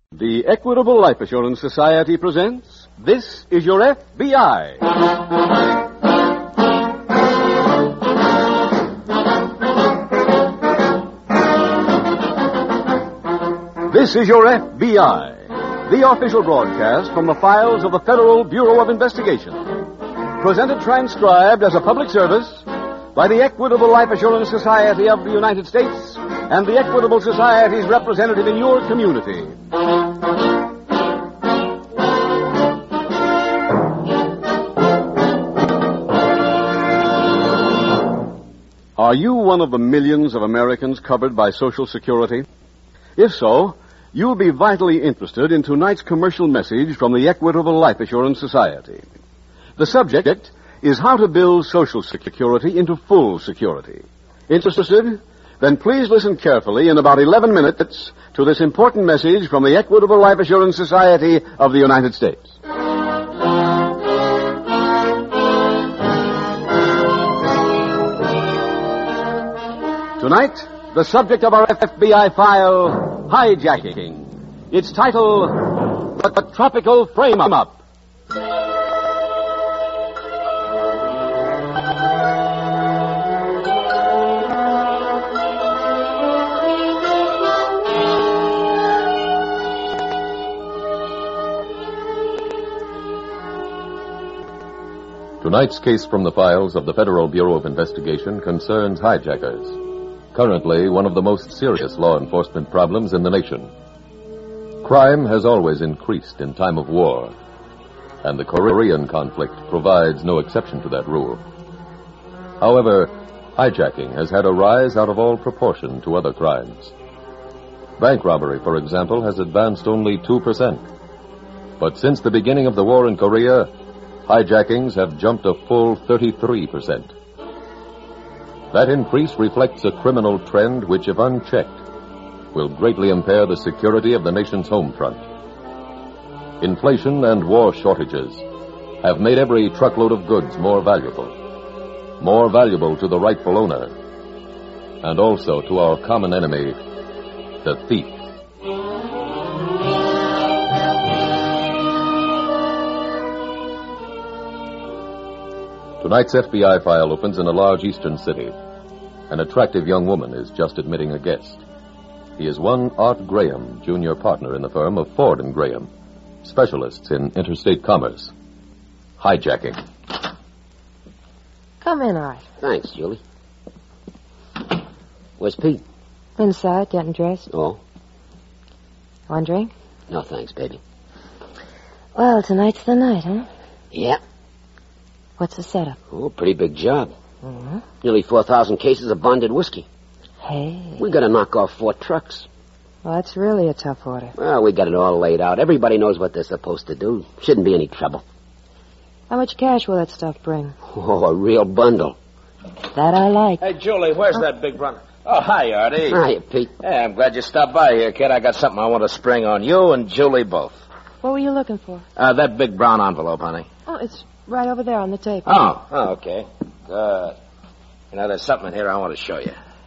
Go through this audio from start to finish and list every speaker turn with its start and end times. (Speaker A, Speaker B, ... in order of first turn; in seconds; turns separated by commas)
Speaker A: 0.1-4.8, Speaker A: 13.8-19.6, Speaker A: 20.4-29.6, Speaker A: 39.0-42.5, Speaker A: 43.1-49.0, Speaker A: 49.8-62.5, Speaker A: 70.2-77.8, Speaker B: 95.4-99.8, Speaker B: 100.3-103.7, Speaker B: 104.8-107.3, Speaker B: 108.2-111.4, Speaker B: 112.6-116.9, Speaker B: 118.0-120.8, Speaker B: 121.8-123.7, Speaker B: 124.3-127.1, Speaker B: 128.7-131.8, Speaker B: 132.5-135.2, Speaker B: 136.6-138.4, Speaker B: 139.0-141.3, Speaker B: 142.2-143.9, Speaker B: 145.0-146.8, Speaker B: 147.6-148.2, Speaker B: 156.0-158.5, Speaker B: 159.3-161.6, Speaker B: 162.4-165.9, Speaker B: 166.4-168.3, Speaker B: 169.2-169.8, Speaker C: 171.8-172.4, Speaker D: 172.6-173.2, Speaker D: 175.4-175.8, Speaker C: 176.4-177.5, Speaker D: 177.5-177.8, Speaker C: 179.3-179.7, Speaker D: 180.1-180.8, Speaker C: 182.1-183.5, Speaker D: 183.9-184.2, Speaker C: 185.4-186.0, Speaker D: 186.1-187.1, Speaker C: 187.4-187.8, Speaker D: 188.0-189.8, Speaker C: 190.4-191.0, Speaker D: 191.0-192.5, Speaker C: 193.0-194.3, Speaker D: 194.3-198.2, Speaker C: 199.3-200.7, Speaker D: 200.9-202.2, Speaker C: 202.9-203.6, Speaker E: 203.6-206.2, Speaker D: 206.1-206.7, Speaker E: 206.8-210.7, Speaker C: 211.2-212.0, Speaker E: 212.2-213.7, Speaker C: 213.9-215.6, Speaker E: 215.4-217.3, Speaker E: 218.1-219.6